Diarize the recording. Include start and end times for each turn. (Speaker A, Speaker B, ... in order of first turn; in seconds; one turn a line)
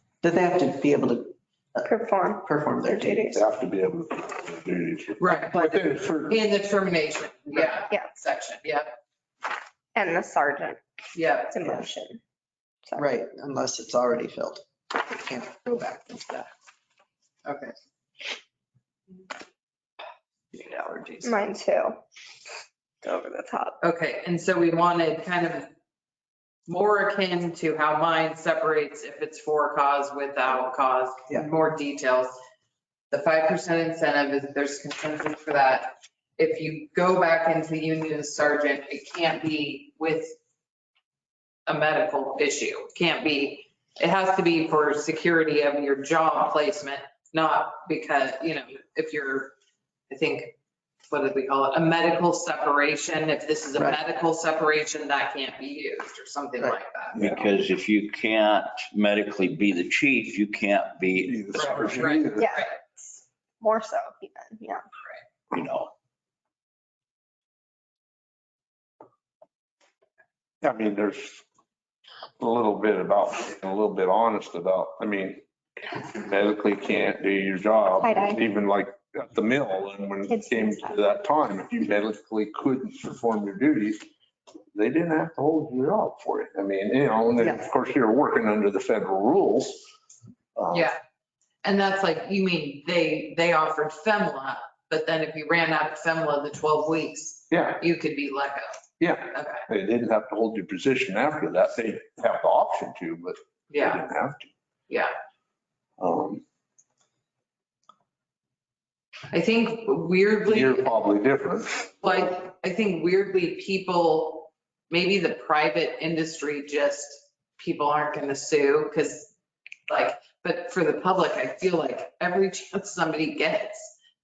Speaker A: 0.2-3.3
Speaker B: 1.8-3.4
Speaker C: 3.3-6.4
Speaker D: 5.2-9.0
Speaker B: 9.9-10.8
Speaker D: 11.1-11.6
Speaker B: 11.5-12.2
Speaker A: 13.0-16.5
Speaker D: 17.4-17.7
Speaker A: 20.5-21.5
Speaker B: 21.2-22.0
Speaker B: 23.0-23.8
Speaker D: 23.8-25.7
Speaker D: 26.7-32.3
Speaker D: 33.1-40.4
Speaker D: 41.7-49.5
Speaker D: 50.1-50.5
Speaker D: 51.1-57.2
Speaker E: 57.1-61.9
Speaker C: 61.2-62.5
Speaker D: 61.5-62.8
Speaker B: 62.3-62.7
Speaker B: 63.6-64.8
Speaker E: 65.5-65.9
Speaker C: 70.6-71.4
Speaker C: 72.4-75.4
Speaker C: 76.2-84.0
Speaker B: 78.0-78.4
Speaker B: 80.3-81.0
Speaker C: 84.7-89.8
Speaker C: 90.5-90.9
Speaker D: 90.7-91.0
Speaker D: 91.6-98.7
Speaker C: 97.5-97.8
Speaker C: 99.0-104.5
Speaker D: 99.3-99.7
Speaker D: 103.7-104.1
Speaker C: 106.0-106.4
Speaker D: 109.3-110.9
Speaker C: 110.5-112.1
Speaker D: 112.0-119.3
Speaker D: 119.9-123.9